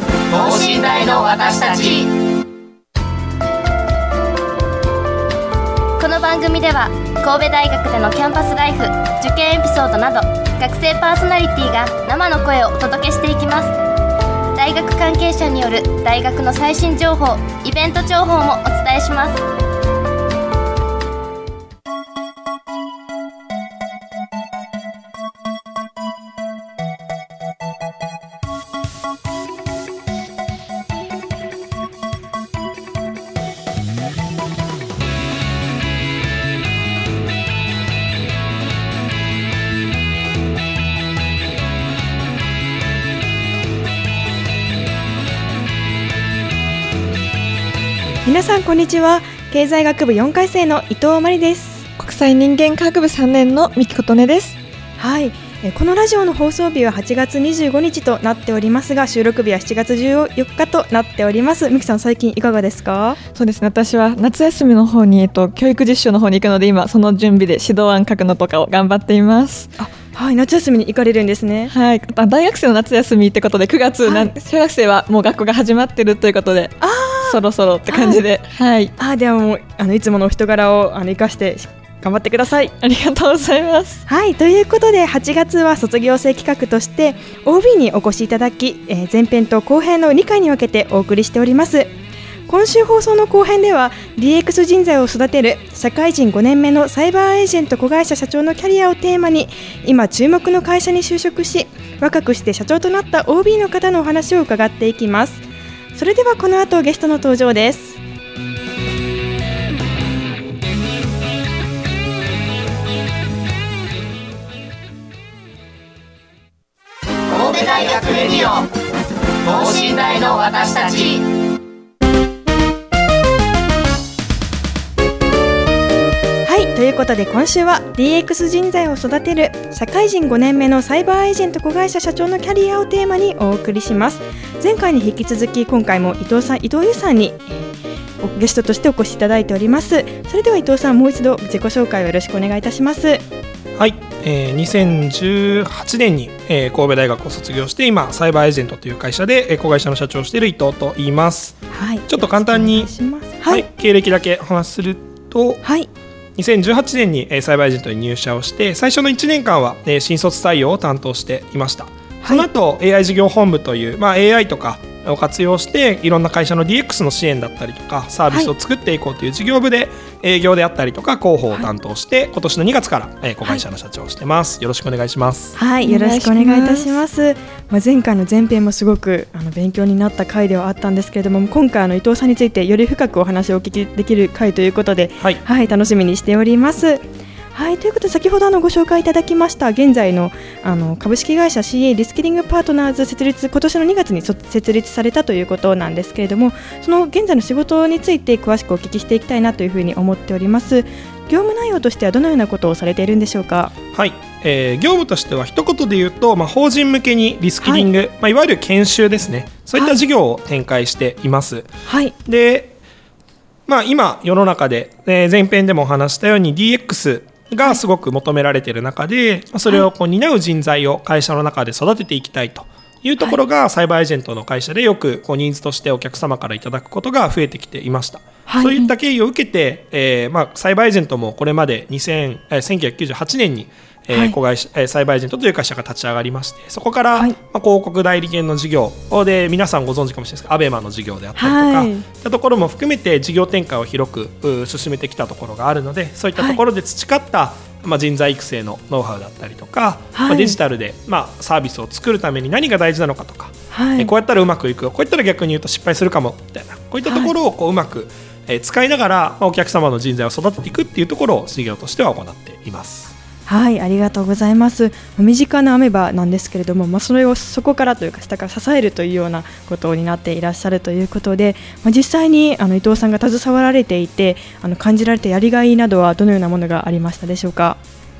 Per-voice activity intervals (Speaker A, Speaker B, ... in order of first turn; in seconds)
Speaker A: 0.3-2.1, 117.3-118.7, 119.4-121.2
Speaker B: 6.0-13.7, 14.6-19.4
Speaker C: 48.2-51.9, 55.0-63.2, 69.8-71.7, 76.8-78.2, 79.0-82.8, 84.1-91.9, 92.5-105.4, 106.0-108.0, 126.5-143.2, 151.7-153.7, 155.6-155.9, 162.2-162.5, 175.6-203.7, 207.6-207.9, 211.9-212.2, 228.5-228.9, 241.4-242.1, 250.1-250.6, 253.7-254.1, 257.0-257.3, 263.5-277.8
Speaker D: 52.0-54.6, 63.3-69.7, 71.7-78.9, 82.8-84.0, 175.8-176.9
Speaker E: 143.8-152.9, 153.4-155.6, 156.4-175.6, 203.9-211.7, 212.2-212.8, 213.7-263.1